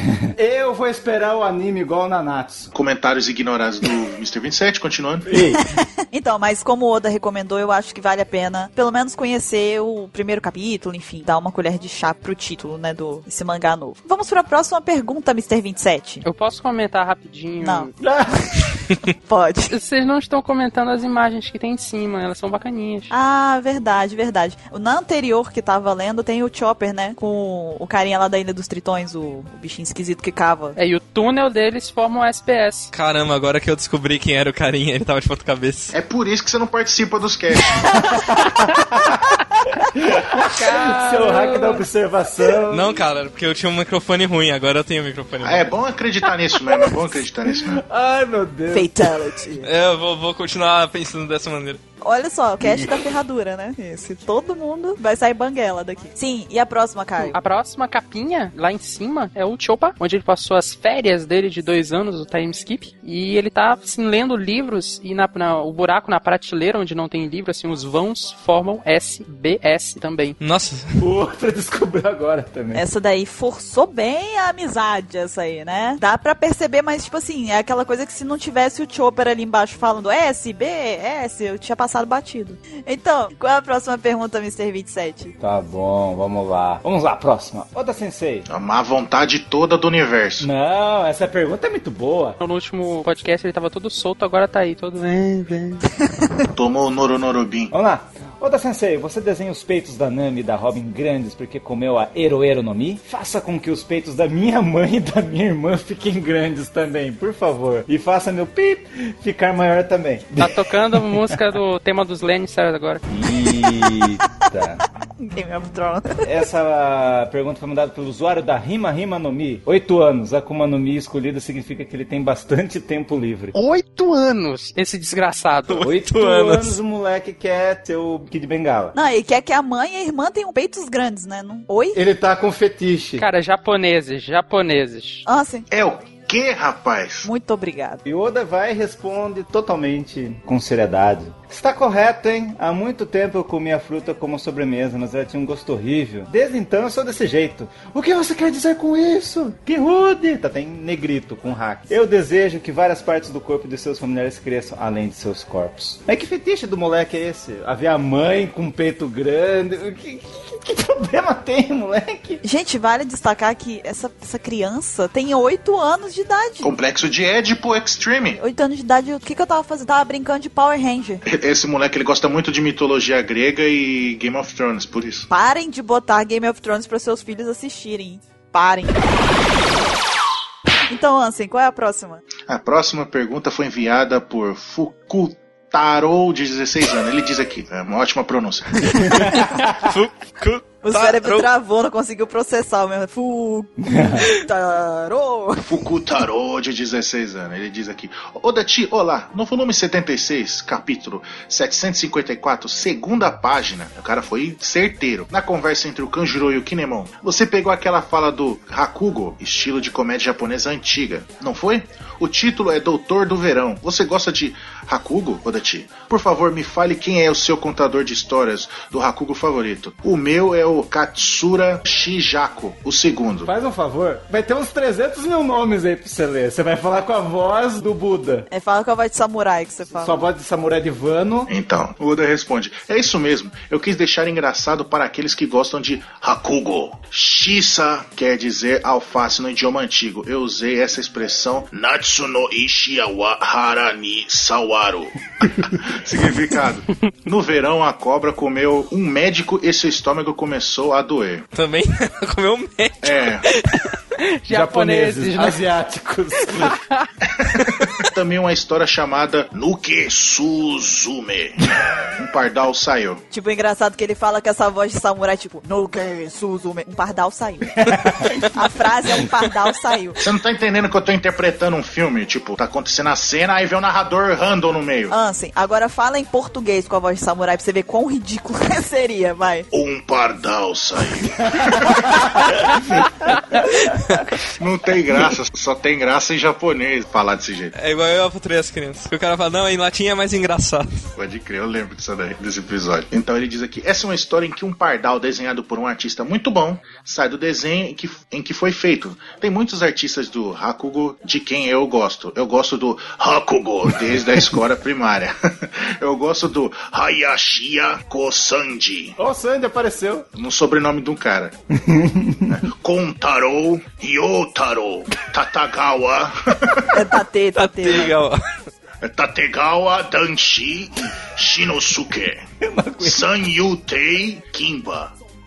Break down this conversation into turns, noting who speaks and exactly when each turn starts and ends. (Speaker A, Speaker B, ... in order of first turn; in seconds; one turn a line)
Speaker A: 0.2-2.7
Speaker B: 2.7-5.3
Speaker A: 5.3-5.6
Speaker C: 5.6-16.2
Speaker D: 16.2-17.9
Speaker C: 17.6-17.9
Speaker A: 18.0-18.3
Speaker C: 18.6-19.7
Speaker D: 19.7-23.1
Speaker C: 23.1-30.8
Speaker D: 30.8-32.9
Speaker E: 32.9-35.9
Speaker B: 35.9-38.0
Speaker A: 37.9-43.0
Speaker D: 40.5-41.9
Speaker E: 42.7-45.7
Speaker B: 45.4-47.8
Speaker A: 47.5-49.1
Speaker C: 48.7-49.7
Speaker E: 49.6-51.8
Speaker C: 52.0-57.4
Speaker E: 52.6-52.9
Speaker D: 57.2-70.4
Speaker E: 70.4-71.0
Speaker A: 71.0-72.8
Speaker C: 72.7-85.3
Speaker A: 85.4-88.5
Speaker B: 88.5-90.5
Speaker A: 90.4-92.4
Speaker D: 92.4-95.9
Speaker B: 96.5-97.7
Speaker A: 97.7-111.3
Speaker D: 110.4-113.0
Speaker A: 113.1-114.8
Speaker C: 115.2-116.2
Speaker A: 116.2-123.5
Speaker D: 123.5-125.8
Speaker E: 125.7-126.7
Speaker A: 125.8-128.9
Speaker C: 128.9-132.0
Speaker A: 131.9-133.2
Speaker D: 133.2-135.2
Speaker C: 135.2-135.7
Speaker B: 135.7-137.3
Speaker C: 137.2-138.0
Speaker A: 138.1-162.4
Speaker C: 162.4-166.7
Speaker B: 166.6-168.4
Speaker C: 168.4-171.2
Speaker B: 171.2-175.3
Speaker C: 175.3-179.1
Speaker C: 180.9-182.2
Speaker B: 182.5-188.9
Speaker A: 188.9-189.9
Speaker E: 189.4-191.5
Speaker C: 190.8-195.8
Speaker A: 193.8-194.3
Speaker B: 195.7-223.5
Speaker A: 223.4-228.5
Speaker C: 228.5-230.2
Speaker A: 229.9-231.5
Speaker B: 231.5-251.4
Speaker E: 251.5-253.9
Speaker B: 253.0-253.4
Speaker D: 254.2-255.6
Speaker A: 254.5-256.8
Speaker D: 256.6-257.1
Speaker B: 257.4-263.2
Speaker C: 263.3-270.2
Speaker A: 267.7-268.4
Speaker B: 270.2-275.1
Speaker C: 275.1-279.7
Speaker B: 279.7-283.0
Speaker A: 282.1-283.0
Speaker B: 284.6-287.7
Speaker E: 287.7-291.0
Speaker B: 291.1-309.2
Speaker A: 309.2-310.2
Speaker B: 310.3-311.6
Speaker A: 311.7-312.6
Speaker B: 312.5-316.9
Speaker C: 316.9-318.1
Speaker E: 317.5-318.5
Speaker B: 319.0-322.5
Speaker A: 322.6-323.4
Speaker B: 323.0-325.1